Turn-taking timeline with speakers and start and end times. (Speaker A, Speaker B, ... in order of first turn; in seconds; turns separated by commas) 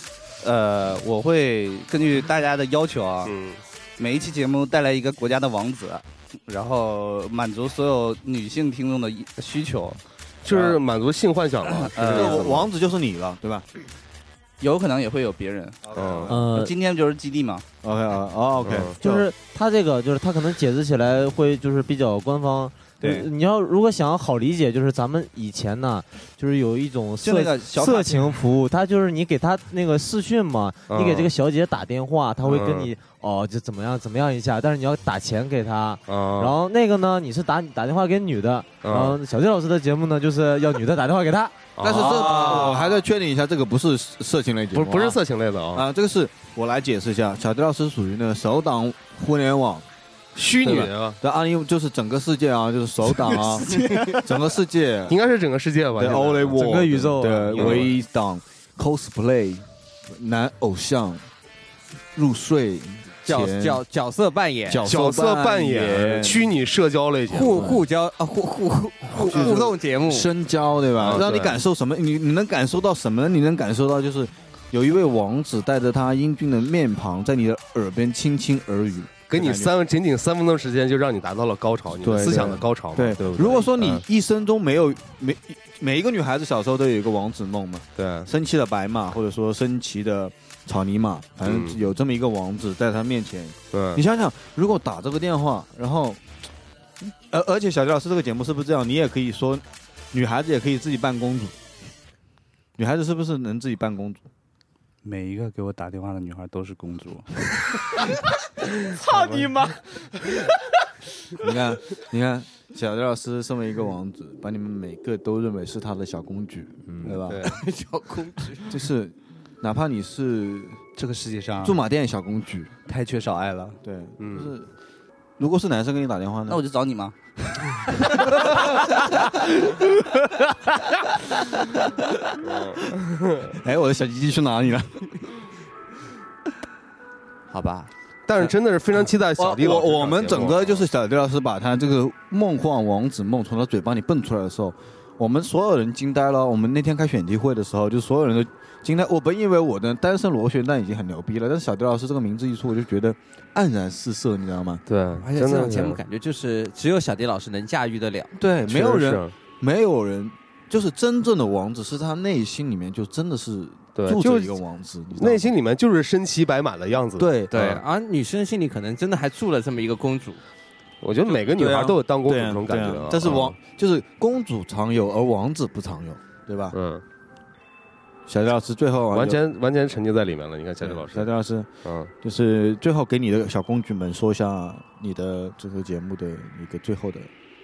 Speaker A: 0.4-3.4, Speaker B: 3.2-3.6, Speaker A: 4.0-10.0, Speaker B: 10.4-12.7, Speaker C: 10.5-10.8, Speaker A: 11.7-12.7, Speaker C: 12.1-13.7, Speaker A: 14.6-15.8, Speaker C: 15.9-16.5, Speaker B: 15.9-16.3, Speaker D: 16.3-16.7, Speaker A: 16.4-17.6, Speaker C: 17.8-19.3, Speaker B: 18.6-18.9, Speaker D: 19.0-41.5, Speaker A: 23.0-23.3, Speaker A: 27.2-28.4, Speaker B: 30.9-31.3, Speaker B: 32.4-32.9, Speaker B: 36.1-36.5, Speaker B: 38.8-39.2, Speaker B: 41.8-42.9, Speaker C: 41.8-45.2, Speaker B: 44.7-45.9, Speaker C: 45.7-49.9, Speaker B: 50.4-51.2, Speaker C: 50.6-55.2, Speaker A: 53.8-54.2, Speaker B: 55.1-58.0, Speaker C: 56.0-61.2, Speaker D: 56.5-57.9, Speaker C: 62.1-63.8, Speaker E: 63.2-64.9, Speaker C: 64.7-66.5, Speaker B: 64.8-67.6, Speaker E: 67.3-70.3, Speaker C: 67.5-67.8, Speaker C: 69.1-79.7, Speaker B: 69.2-69.6, Speaker B: 71.0-71.6, Speaker B: 79.3-84.0, Speaker C: 82.0-96.2, Speaker B: 88.0-88.3, Speaker B: 91.4-91.8, Speaker B: 93.7-94.0, Speaker C: 97.0-101.5, Speaker C: 102.8-104.2, Speaker A: 105.0-107.8, Speaker B: 109.0-109.6, Speaker E: 109.2-109.7, Speaker C: 111.4-117.4, Speaker B: 117.0-117.6, Speaker E: 117.6-118.6, Speaker C: 118.7-120.8, Speaker A: 121.0-121.8, Speaker C: 121.6-122.7, Speaker A: 122.9-123.8, Speaker C: 123.8-124.7, Speaker B: 124.2-124.5, Speaker C: 125.4-126.6, Speaker A: 126.5-127.8, Speaker B: 132.4-133.6, Speaker C: 133.6-135.2, Speaker E: 137.5-137.9, Speaker B: 138.3-140.9, Speaker C: 139.4-154.8, Speaker B: 154.9-156.0, Speaker E: 155.2-158.3, Speaker C: 158.4-165.5, Speaker B: 158.7-159.3, Speaker B: 164.0-164.6, Speaker B: 165.2-167.8, Speaker C: 167.2-167.5, Speaker E: 167.5-170.4, Speaker B: 171.0-173.6, Speaker C: 171.5-176.8, Speaker B: 176.7-177.0, Speaker C: 178.3-179.4, Speaker B: 179.1-181.3, Speaker C: 180.8-181.7, Speaker B: 181.8-182.1, Speaker C: 182.2-187.3